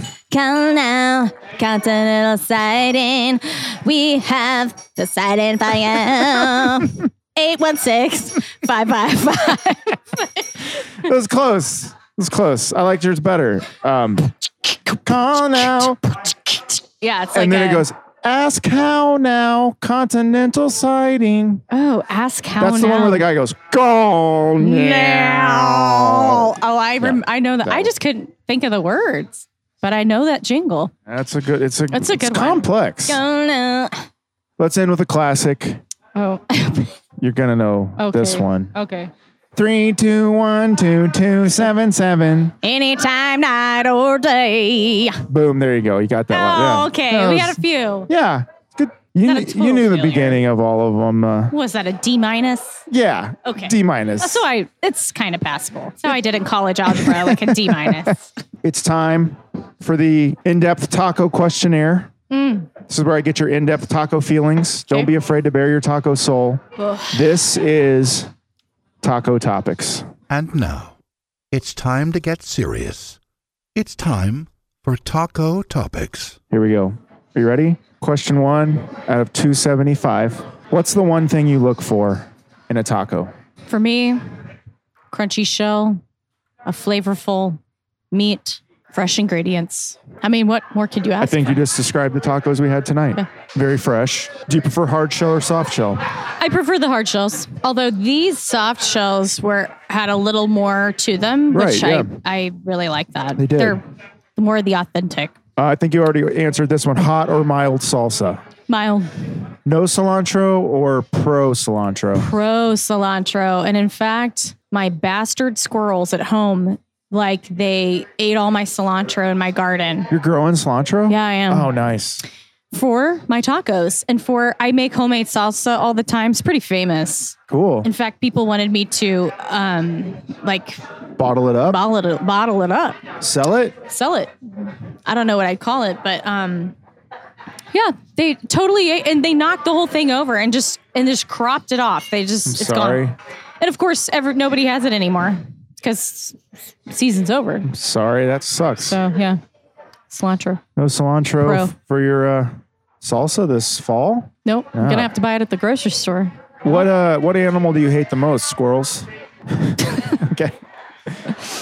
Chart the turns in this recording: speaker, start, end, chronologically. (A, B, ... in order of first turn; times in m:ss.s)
0:00.3-0:10.5 A
0:11.0-0:14.3 B
0:15.0-0:16.0 B
0:16.3-0:17.8 A
0:17.3-0:21.6 B
0:21.7-0:23.2 A
0:22.6-0:27.9 B
0:24.6-0:30.9 A
0:31.1-0:33.2 B
0:31.9-0:34.0 A
0:34.6-0:35.8 B
0:36.2-0:36.9 A
0:37.2-0:38.7 B
0:38.0-0:39.1 A
0:39.5-0:42.5 B
0:42.6-0:45.2 A
0:45.3-0:51.5 B
0:46.3-0:48.1 A
0:49.2-0:50.4 A
0:51.5-0:52.8 A
0:52.9-0:54.4 B
0:53.4-0:58.3 A
0:56.9-1:02.1 B
1:02.3-1:02.7 A
1:02.9-1:08.3 B
1:06.8-1:07.2 A
1:09.0-1:10.0 B
1:10.3-1:10.9 C
1:11.5-1:13.2 C
1:13.7-1:16.4 C
1:16.5-1:23.3 B
1:23.7-1:24.2 A
1:25.1-1:26.0 A
1:26.6-1:27.6 A
1:28.1-1:31.6 A
1:31.2-1:36.0 B
1:36.4-1:43.8 A
1:41.5-1:42.1 B
1:43.4-1:43.8 B
1:44.4-1:45.3 A
1:45.6-1:48.4 B
1:48.7-1:49.1 A
1:49.6-1:52.3 B
1:52.2-2:00.1 A
2:00.1-2:02.2 B
2:01.1-2:01.7 A
2:02.7-2:10.8 A
2:07.5-2:07.9 B
2:11.2-2:11.8 B
2:11.6-2:13.0 A
2:13.2-2:13.7 B
2:13.8-2:16.8 A
2:17.7-2:23.0 A
2:22.5-2:23.1 B
2:23.6-2:27.7 A
2:27.6-2:29.0 B
2:28.8-2:29.4 A
2:30.1-2:30.6 A
2:30.8-2:35.1 B
2:31.4-2:31.7 A
2:34.4-2:36.8 A
2:36.6-2:40.6 B
2:41.1-2:41.4 B